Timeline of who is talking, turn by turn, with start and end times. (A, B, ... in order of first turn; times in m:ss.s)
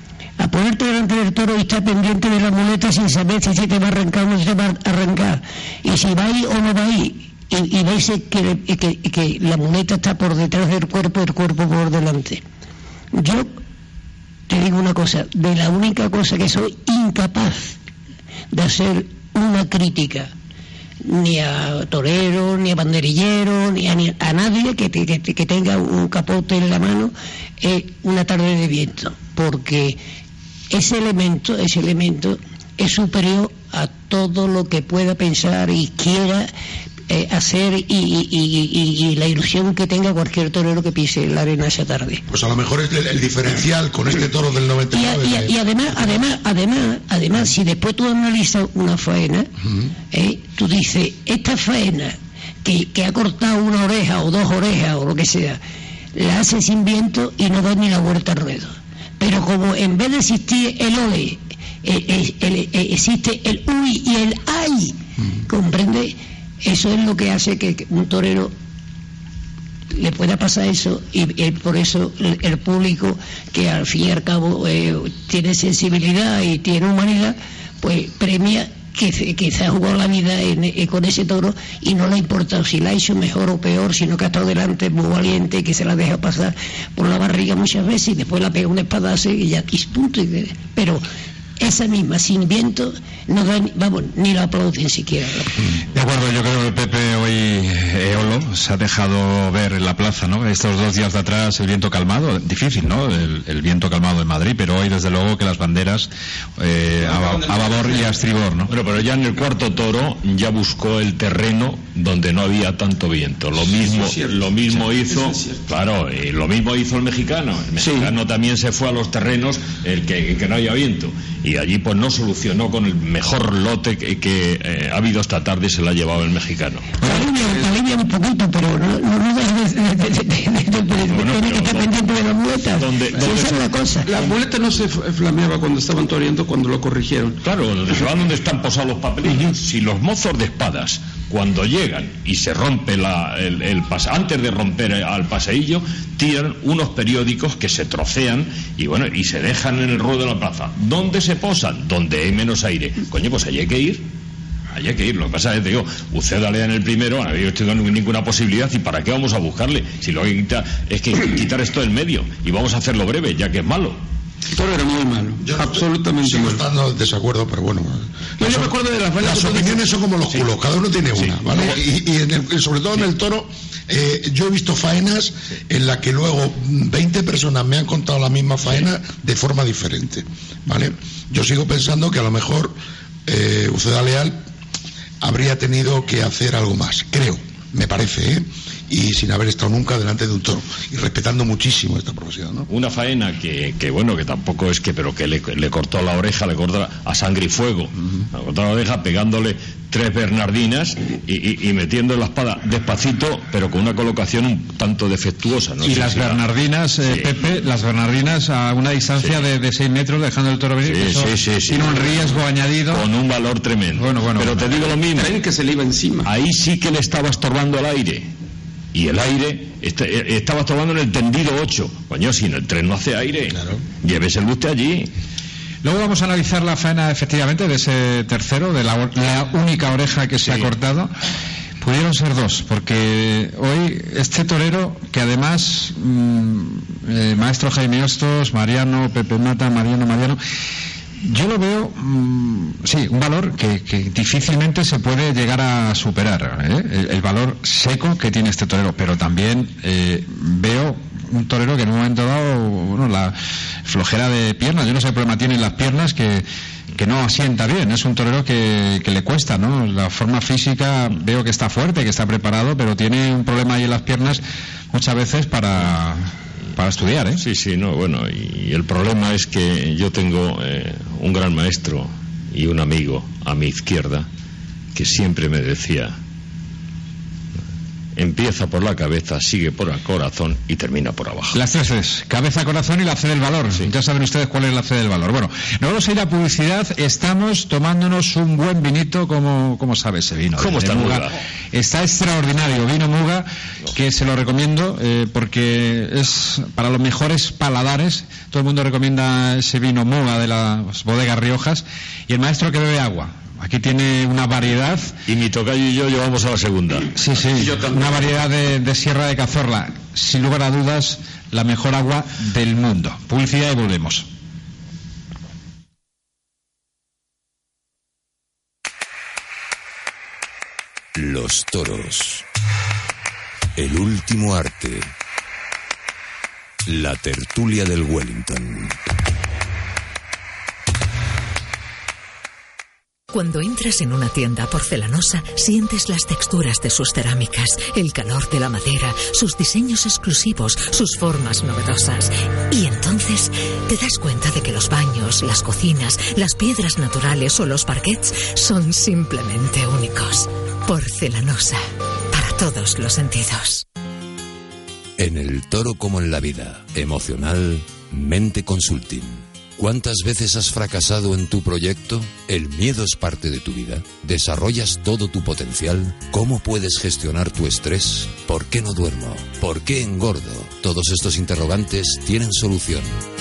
0:00.4-0:12.4 A
0:13.1-0:13.5 A
0:14.5-0:17.8 A
0:18.5-0:20.3 A
0:21.0-0:30.0 A
0:30.7-0:36.5 A
0:37.1-0:42.2 A
0:42.3-0:45.5 B
0:44.9-0:49.5 A
0:50.1-0:55.6 A
0:56.2-1:08.5 A
1:09.9-1:31.0 A
1:31.6-1:35.6 A
1:35.9-1:48.7 C
1:47.0-1:48.1 D
1:48.7-2:06.9 E
1:53.8-1:55.6 D
1:57.8-1:58.1 D
2:07.0-2:14.1 A
2:11.0-2:13.7 E
2:14.0-2:17.4 D
2:17.4-2:34.0 E
2:34.7-2:44.0 E
2:44.5-2:46.6 D
2:45.4-3:02.8 B
2:48.4-2:49.9 D
3:03.3-3:04.4 B
3:05.2-3:12.7 B
3:12.7-3:26.4 E
3:25.8-3:33.0 C
3:30.8-3:35.4 E
3:34.0-3:35.0 C
3:35.1-3:36.3 D
3:36.2-3:38.3 E
3:38.9-3:45.1 E
3:45.8-3:51.1 C
3:50.4-3:50.7 E
3:51.8-4:00.4 C
4:01.2-4:13.4 C
4:13.9-4:16.4 C
4:17.0-4:27.4 C
4:27.4-4:34.3 E
4:35.0-4:36.2 E
4:38.2-4:41.6 E
4:41.5-5:05.2 C
4:50.6-4:51.4 E
5:05.3-5:07.1 E
5:07.1-5:14.3 C
5:07.4-5:08.4 D
5:21.2-5:22.4 F
5:23.8-5:25.1 F
5:26.9-5:29.0 F
5:33.3-5:53.8 G
5:55.2-6:13.2 F